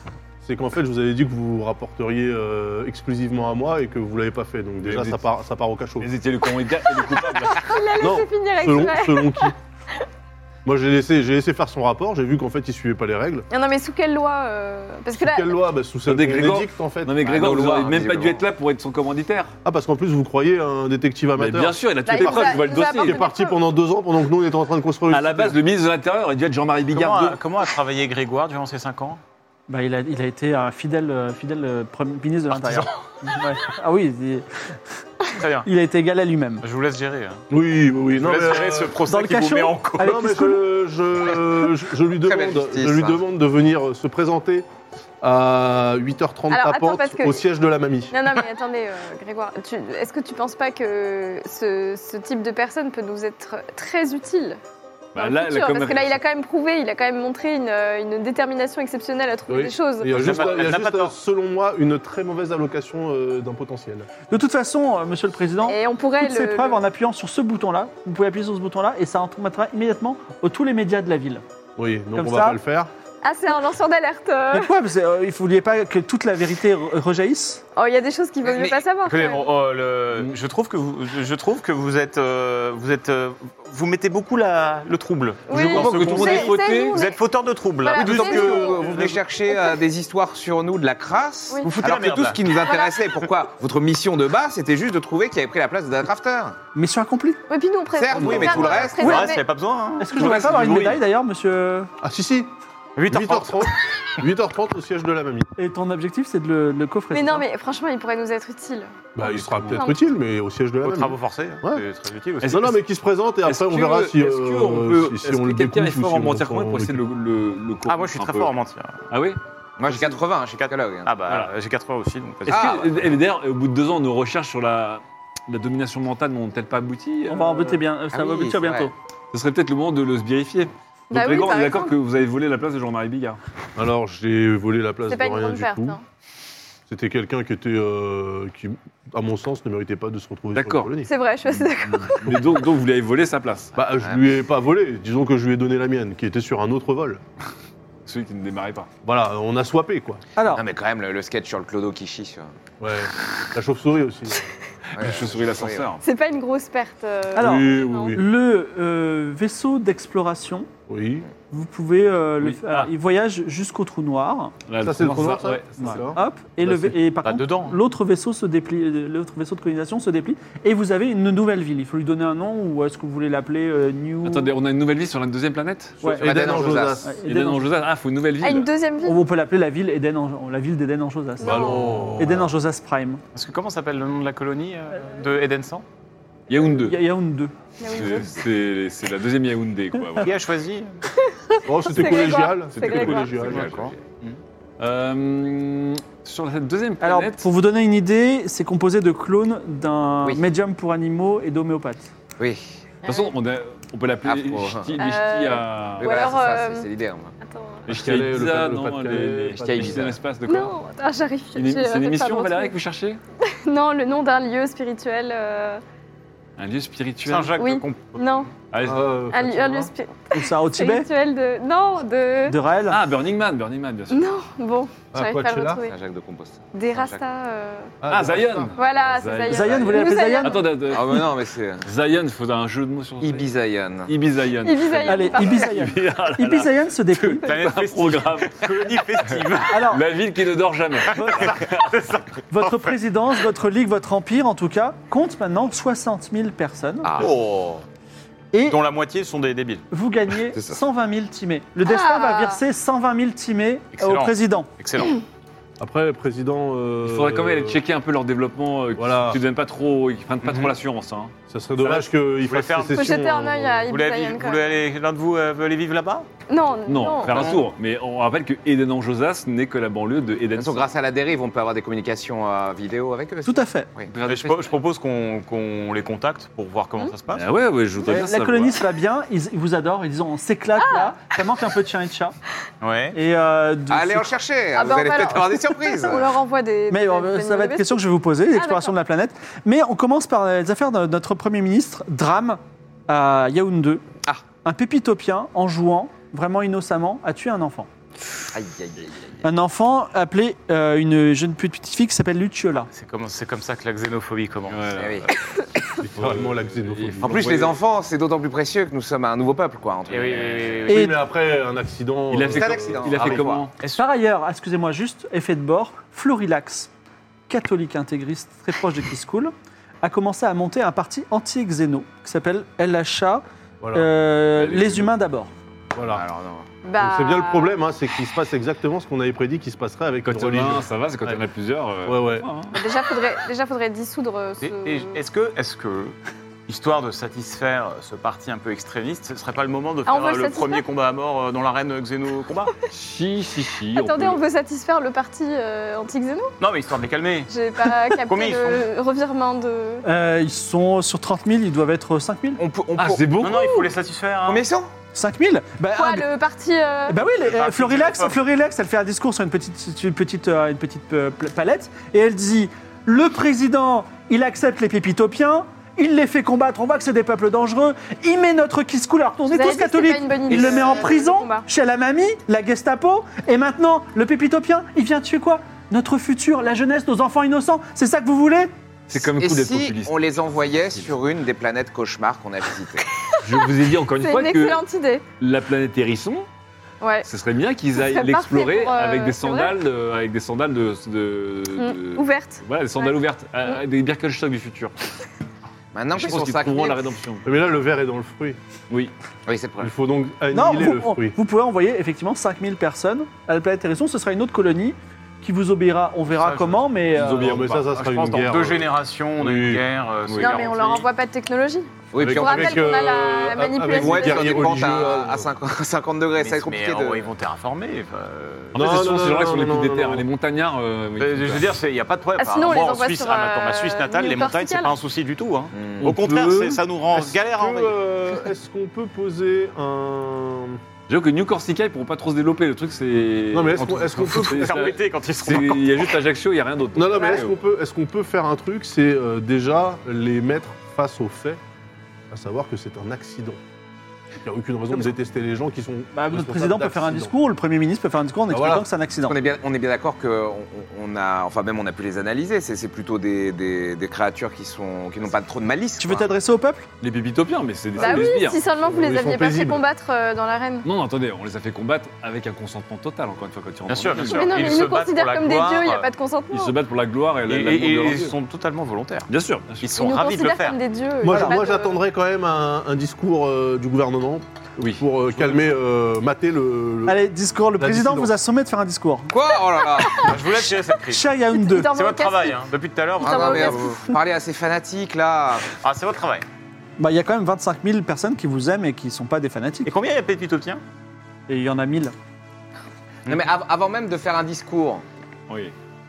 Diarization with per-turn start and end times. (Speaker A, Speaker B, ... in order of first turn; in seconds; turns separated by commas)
Speaker A: 0.4-6.1, Speaker B: 4.8-5.2, Speaker B: 6.0-7.9, Speaker C: 7.2-10.0, Speaker A: 8.0-9.6, Speaker A: 10.6-13.5, Speaker C: 13.5-15.6, Speaker A: 15.2-17.9, Speaker B: 16.1-19.5, Speaker D: 17.2-18.4, Speaker A: 19.6-25.6, Speaker B: 21.4-23.2, Speaker C: 22.0-23.6, Speaker B: 25.1-27.4, Speaker E: 26.9-29.2, Speaker F: 29.7-34.5, Speaker E: 32.5-32.9, Speaker E: 35.4-35.7, Speaker F: 35.6-36.6, Speaker E: 36.6-37.4, Speaker A: 37.5-38.9, Speaker E: 38.1-40.2, Speaker F: 39.1-40.6, Speaker A: 40.0-44.6, Speaker D: 42.2-43.2, Speaker A: 45.2-48.1, Speaker C: 46.5-47.4, Speaker C: 48.1-54.6, Speaker B: 55.1-56.2, Speaker C: 55.1-60.3, Speaker A: 59.5-64.1, Speaker E: 60.1-61.1, Speaker F: 64.3-71.4, Speaker C: 65.6-66.8, Speaker A: 71.8-72.9, Speaker F: 72.1-72.6, Speaker C: 73.2-74.7, Speaker F: 74.5-77.6, Speaker C: 77.7-79.4, Speaker D: 78.4-78.8, Speaker E: 79.1-89.2, Speaker C: 85.5-87.2, Speaker B: 85.5-87.0, Speaker C: 87.8-88.9, Speaker D: 87.9-96.6, Speaker C: 89.5-89.8, Speaker E: 91.6-92.5, Speaker C: 92.6-93.0, Speaker F: 96.7-97.4, Speaker C: 97.5-99.4, Speaker D: 98.0-99.2, Speaker E: 98.2-100.5, Speaker F: 100.0-101.9, Speaker B: 100.2-101.0, Speaker A: 102.0-102.5, Speaker E: 103.0-104.2, Speaker A: 103.1-105.5, Speaker F: 105.6-107.4, Speaker C: 107.1-109.1, Speaker A: 109.2-111.8, Speaker B: 109.2-109.8, Speaker C: 109.7-110.1, Speaker E: 110.8-112.7, Speaker B: 112.4-112.7, Speaker A: 112.4-117.0, Speaker B: 113.5-118.5, Speaker E: 117.9-119.0, Speaker B: 119.1-119.4, Speaker D: 119.8-121.1, Speaker E: 120.1-122.8, Speaker B: 122.5-127.8, Speaker D: 122.5-123.1, Speaker F: 127.3-128.9, Speaker D: 128.1-128.9, Speaker B: 129.3-133.4, Speaker C: 131.1-131.9, Speaker A: 133.8-136.0, Speaker C: 135.1-136.0, Speaker A: 136.9-141.1, Speaker B: 140.6-140.9, Speaker C: 141.1-142.4, Speaker B: 141.7-143.7, Speaker A: 143.8-147.2, Speaker B: 148.1-148.9, Speaker A: 149.0-150.2, Speaker F: 150.4-150.6, Speaker D: 150.5-152.5, Speaker A: 152.8-154.4, Speaker B: 154.9-156.0, Speaker D: 154.9-155.9, Speaker C: 156.0-158.2, Speaker F: 157.3-160.7, Speaker A: 157.4-158.2, Speaker A: 160.9-161.2, Speaker F: 161.5-164.5, Speaker B: 162.4-162.9, Speaker B: 164.7-166.1, Speaker A: 164.8-166.9, Speaker F: 165.8-174.5, Speaker E: 167.2-167.8, Speaker B: 174.2-176.1, Speaker F: 176.0-176.3, Speaker A: 176.1-177.2, Speaker D: 176.1-177.1, Speaker F: 177.0-177.7, Speaker B: 177.2-178.7, Speaker C: 178.4-179.2, Speaker F: 179.1-183.2, Speaker C: 181.4-182.0, Speaker A: 181.4-182.5, Speaker E: 183.3-185.8, Speaker B: 186.5-187.0, Speaker F: 186.8-187.5, Speaker C: 187.8-188.4, Speaker B: 187.9-190.3, Speaker E: 190.2-190.9, Speaker C: 191.2-193.5, Speaker A: 191.7-193.8, Speaker B: 192.7-193.9, Speaker D: 193.5-193.9, Speaker E: 193.6-194.4, Speaker B: 194.8-197.5, Speaker F: 197.0-202.1, Speaker D: 202.4-202.6, Speaker C: 203.0-203.3, Speaker B: 203.1-206.1, Speaker D: 204.2-205.1, Speaker C: 205.0-206.9, Speaker D: 206.0-207.3, Speaker C: 207.4-207.9, Speaker B: 207.9-210.7, Speaker A: 207.9-210.1, Speaker D: 209.6-210.2, Speaker C: 210.4-212.8, Speaker B: 211.6-213.2, Speaker C: 213.4-215.8, Speaker B: 216.6-217.6, Speaker E: 217.2-218.2, Speaker C: 217.6-218.6, Speaker B: 218.7-219.1, Speaker A: 218.8-219.9, Speaker C: 219.3-222.6, Speaker F: 220.3-221.1, Speaker F: 222.5-223.0, Speaker B: 222.9-224.3, Speaker C: 224.1-225.9, Speaker A: 225.1-225.8, Speaker D: 225.8-227.2, Speaker C: 226.7-227.9, Speaker A: 228.0-228.7, Speaker B: 228.1-231.3, Speaker C: 228.7-230.8, Speaker F: 229.5-230.7, Speaker D: 230.9-231.9, Speaker B: 231.8-233.5, Speaker D: 233.2-234.1, Speaker B: 234.1-238.7, Speaker C: 234.6-235.8, Speaker F: 235.1-237.5, Speaker E: 237.4-239.8, Speaker F: 239.7-240.0, Speaker B: 239.7-241.9, Speaker F: 241.1-241.6, Speaker E: 241.1-242.9, Speaker F: 242.5-247.1, Speaker D: 247.0-247.3, Speaker E: 247.2-247.8, Speaker E: 248.7-249.8, Speaker F: 249.9-254.7, Speaker D: 250.5-250.8, Speaker C: 251.8-252.6, Speaker E: 253.9-255.2, Speaker A: 255.8-257.8, Speaker B: 257.0-261.3, Speaker A: 258.9-259.4, Speaker E: 260.4-260.7, Speaker A: 261.5-263.8, Speaker E: 261.8-263.2, Speaker C: 262.9-264.6, Speaker E: 263.9-266.3, Speaker C: 266.5-267.5, Speaker B: 266.9-270.9, Speaker E: 267.2-267.6, Speaker D: 270.6-274.1, Speaker F: 273.4-273.9, Speaker B: 274.1-274.7, Speaker E: 274.2-277.4, Speaker B: 277.3-278.8, Speaker F: 278.1-282.4, Speaker C: 280.8-281.2, Speaker E: 282.8-283.1, Speaker F: 283.1-284.3, Speaker D: 283.9-286.3, Speaker C: 284.7-288.0, Speaker F: 286.9-294.0, Speaker C: 288.5-288.9, Speaker F: 294.6-297.9, Speaker D: 298.5-299.4, Speaker F: 299.4-302.9, Speaker E: 302.9-305.3, Speaker B: 304.7-305.2, Speaker D: 304.9-305.3, Speaker A: 306.0-307.6, Speaker B: 306.1-307.8, Speaker D: 307.2-310.7, Speaker E: 310.1-311.1, Speaker B: 310.2-310.8, Speaker A: 310.9-313.4, Speaker F: 310.9-311.2, Speaker B: 312.3-313.7, Speaker D: 312.5-313.7, Speaker F: 313.9-316.9, Speaker F: 317.5-325.5, Speaker A: 323.8-324.1, Speaker B: 324.6-325.1, Speaker A: 325.9-326.2, Speaker D: 326.1-326.7, Speaker C: 326.8-327.8, Speaker A: 327.0-331.4, Speaker B: 330.2-332.8, Speaker A: 332.1-332.4, Speaker C: 332.7-335.2, Speaker E: 334.6-336.1, Speaker E: 336.7-342.7, Speaker C: 340.1-340.8, Speaker B: 342.9-344.4, Speaker C: 343.9-346.5, Speaker E: 346.6-347.5, Speaker C: 347.5-350.0, Speaker E: 348.1-348.9, Speaker F: 350.0-352.6, Speaker D: 352.6-353.5, Speaker B: 352.9-353.9, Speaker E: 353.4-354.6, Speaker D: 354.4-354.9, Speaker F: 355.1-356.2, Speaker C: 355.9-357.2, Speaker F: 357.1-378.7, Speaker E: 357.4-358.4, Speaker C: 369.5-371.6, Speaker D: 370.5-371.0, Speaker B: 379.1-380.2, Speaker D: 379.1-383.1, Speaker B: 383.4-384.8, Speaker C: 383.5-385.2, Speaker B: 385.4-386.4, Speaker C: 387.0-387.3, Speaker B: 387.2-394.9, Speaker C: 387.9-389.8, Speaker C: 391.8-393.8, Speaker D: 395.9-397.0, Speaker B: 396.1-397.4, Speaker A: 397.4-398.6, Speaker D: 399.4-399.9, Speaker A: 399.8-401.4, Speaker F: 400.5-407.5, Speaker E: 406.4-406.8, Speaker B: 407.1-408.5, Speaker A: 407.2-409.9, Speaker E: 408.3-411.1, Speaker B: 410.3-410.5, Speaker C: 410.4-414.7, Speaker D: 412.1-413.1, Speaker A: 412.2-415.5, Speaker D: 413.8-417.3, Speaker E: 416.4-419.0, Speaker B: 418.7-421.8, Speaker A: 418.7-420.2, Speaker E: 421.2-428.0, Speaker C: 422.4-424.9, Speaker D: 425.7-426.1, Speaker A: 426.1-430.8, Speaker B: 431.1-437.6, Speaker A: 433.5-434.8, Speaker E: 433.8-436.1, Speaker A: 436.9-441.6, Speaker A: 442.3-443.6, Speaker A: 444.4-447.3, Speaker F: 446.1-449.4, Speaker A: 448.5-448.9, Speaker D: 449.2-456.3, Speaker F: 456.0-456.9, Speaker B: 457.0-458.6, Speaker A: 458.0-459.8, Speaker C: 458.0-460.9, Speaker B: 460.9-464.7, Speaker E: 463.9-466.1, Speaker C: 464.2-466.8, Speaker B: 466.5-468.4, Speaker E: 467.5-469.3, Speaker B: 469.3-470.0, Speaker E: 469.8-470.8, Speaker C: 470.0-472.0, Speaker A: 471.2-477.2, Speaker F: 471.3-471.6, Speaker F: 477.1-479.3, Speaker A: 477.8-478.3, Speaker D: 479.3-480.4, Speaker E: 480.1-481.2, Speaker F: 481.1-481.9, Speaker C: 481.5-482.6, Speaker E: 481.8-483.9, Speaker C: 483.2-484.1, Speaker D: 483.2-485.7, Speaker E: 485.8-486.4, Speaker F: 487.0-489.9, Speaker E: 489.9-490.8, Speaker F: 491.5-492.1, Speaker D: 493.3-495.0